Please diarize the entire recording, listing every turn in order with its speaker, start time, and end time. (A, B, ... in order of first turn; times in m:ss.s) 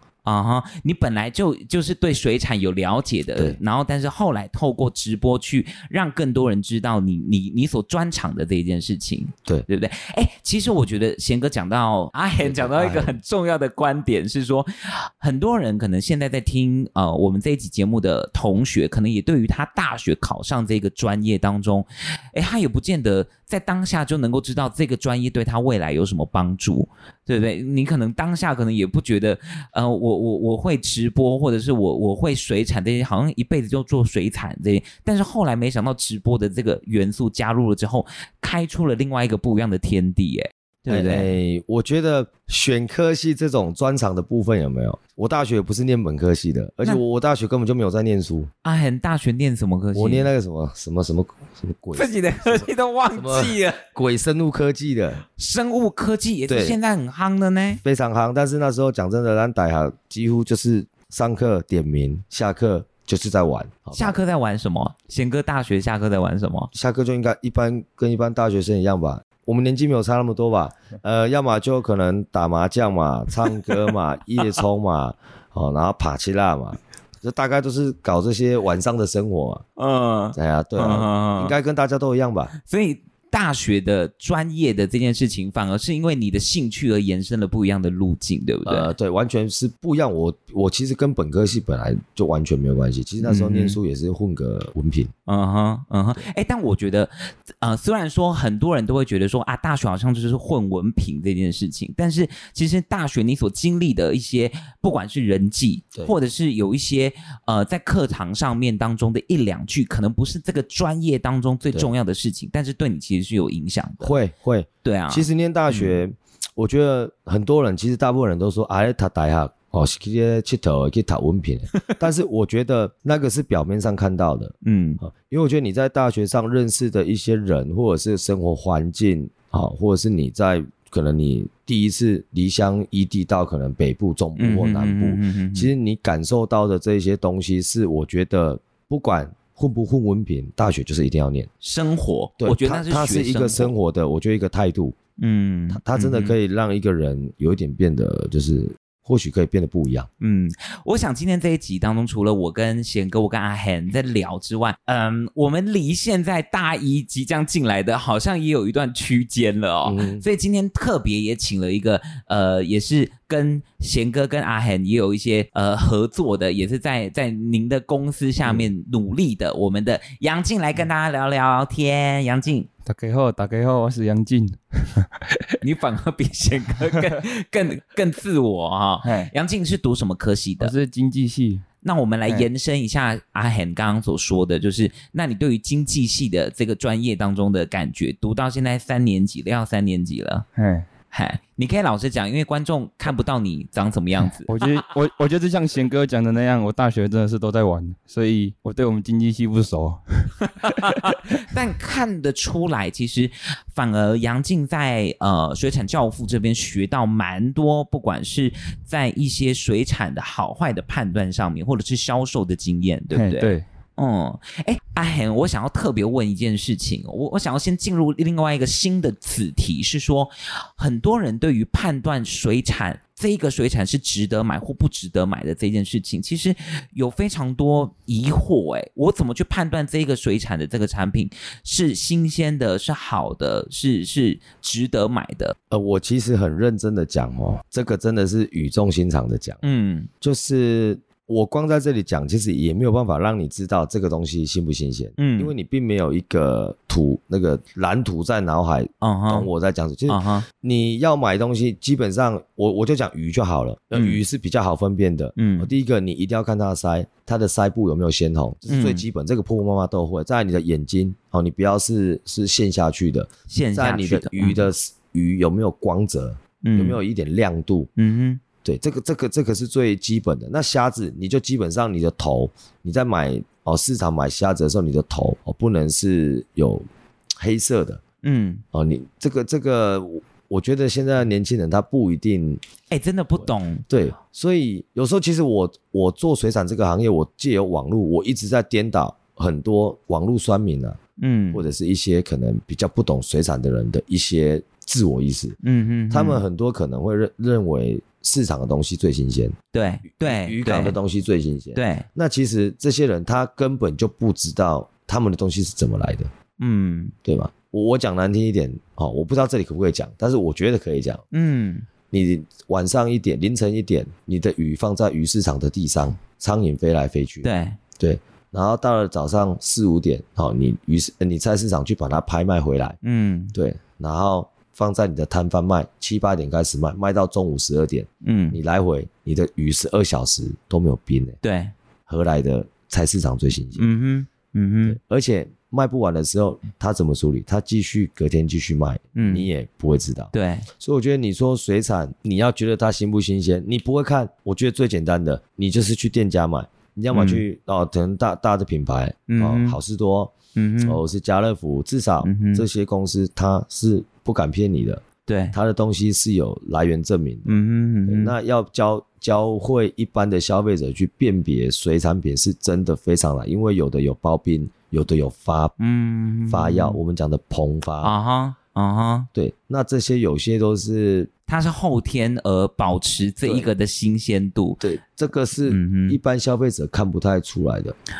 0:00.2-0:41.3 A
0:12.4-0:13.2 B
0:40.9-0:48.5 B
0:48.6-0:50.3 A
0:49.9-0:55.2 B
0:51.9-0:53.8 A
0:55.4-0:57.8 A
0:56.5-0:56.8 B
0:57.8-1:04.2 B
1:03.9-1:06.7 A
1:06.7-1:19.6 B
1:19.8-1:21.5 A
1:20.4-1:22.5 B
1:22.6-1:28.9 A
1:28.7-1:35.1 B
1:33.2-1:33.8 A
1:35.3-1:54.1 A
1:54.0-2:21.5 B
1:54.8-1:56.0 A
2:04.6-2:05.0 A
2:14.4-2:15.7 A
2:21.6-2:23.7 A
2:22.4-2:25.0 B
2:25.2-2:26.4 A
2:25.7-2:30.1 B
2:30.2-2:52.7 A
2:39.8-2:40.2 B
2:52.8-2:55.5 C
2:55.6-3:00.7 A
2:59.0-2:59.3 C
3:00.6-3:01.6 C
3:01.8-3:10.5 A
3:10.6-3:10.9 C
3:11.1-3:14.5 A
3:14.5-3:20.8 C
3:20.6-3:55.6 A
3:33.1-3:33.6 C
3:55.7-3:59.6 B
3:59.6-4:00.1 A
4:00.2-4:27.9 B
4:05.2-4:05.5 A
4:09.0-4:09.5 A
4:10.1-4:10.5 A
4:13.9-4:14.2 A
4:15.4-4:15.7 A
4:18.7-4:19.0 A
4:23.5-4:24.7 A
4:26.6-4:27.0 A
4:28.0-4:28.4 A
4:28.6-4:36.9 B
4:37.4-4:38.0 B
4:38.2-4:38.6 A
4:38.7-4:42.6 B
4:42.9-4:43.8 A
4:43.4-4:51.0 B
4:51.2-4:51.6 A
4:51.5-4:55.6 B
4:55.6-4:56.4 A
4:56.1-4:59.6 B
4:59.7-5:01.0 A
5:00.2-5:06.3 B
5:01.8-5:02.1 A
5:06.6-5:07.1 A
5:07.2-5:11.2 B
5:11.3-5:11.8 A
5:12.1-5:17.5 B
5:17.4-5:17.8 A
5:18.0-5:23.0 B
5:23.0-5:23.5 A
5:23.5-5:31.4 B
5:28.2-5:28.6 A
5:31.4-5:31.7 A
5:32.1-5:33.9 B
5:33.8-5:35.0 A
5:34.9-5:57.5 B
5:39.2-5:39.5 A
5:40.3-5:40.7 A
5:47.1-5:47.4 A
5:49.3-5:49.8 A
5:50.6-5:51.0 A
5:52.2-5:52.6 A
5:55.3-5:55.6 A
5:57.5-5:58.3 A
5:58.1-6:05.8 B
6:05.8-6:07.0 A
6:06.5-6:08.1 B
6:08.0-6:09.3 A
6:09.4-6:11.3 B
6:11.5-6:14.8 A
6:13.4-6:13.7 B
6:14.8-6:18.0 B
6:15.7-6:16.2 A